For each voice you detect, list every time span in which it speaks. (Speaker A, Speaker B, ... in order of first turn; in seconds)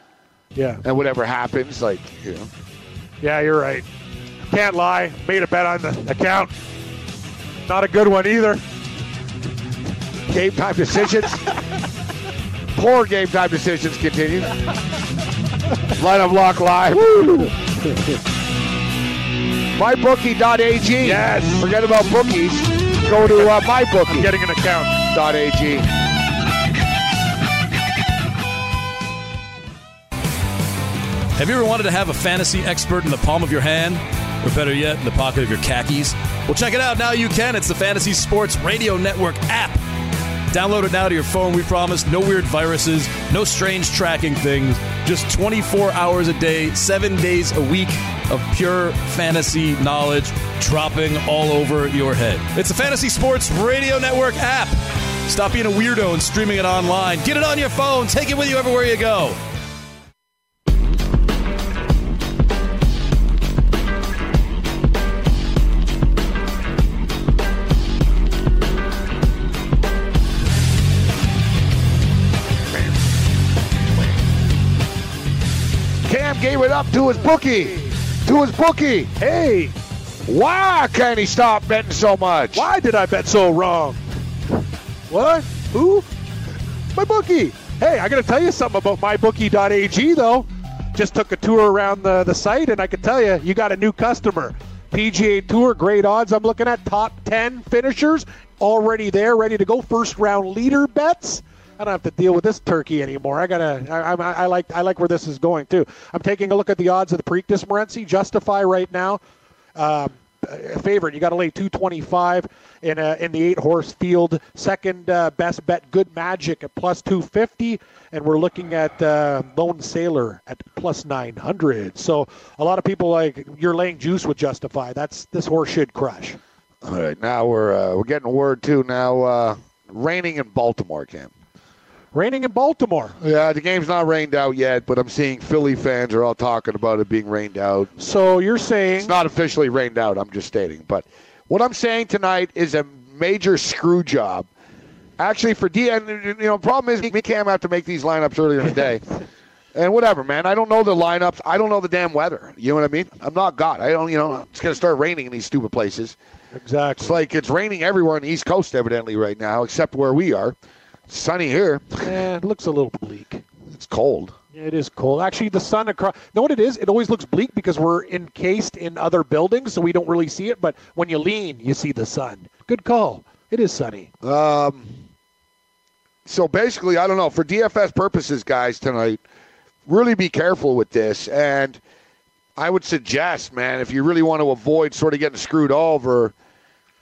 Speaker A: 0.6-0.8, 3.2-3.9, 4.5-6.5, 7.7-8.6, 21.0-21.7, 24.1-25.0, 79.2-79.7, 82.5-84.0, 85.1-86.1, 86.9-109.2, 109.8-126.4, 132.1-133.2, 138.0-139.2, 156.5-157.2, 162.0-163.4, 164.5-174.1
Speaker B: 0.8-2.5, 10.3-11.4, 12.8-14.5, 15.9-17.6, 19.8-24.3, 25.1-25.9, 76.0-79.1, 80.3-82.7, 126.8-131.3, 133.2-137.9, 139.0-144.5, 145.2-149.0, 149.7-156.2, 157.0-160.6, 161.1-162.2, 163.7-164.3, 174.2-175.0, 176.3-179.2, 179.9-181.8, 182.6-186.3
Speaker C: 31.4-39.8, 40.5-59.4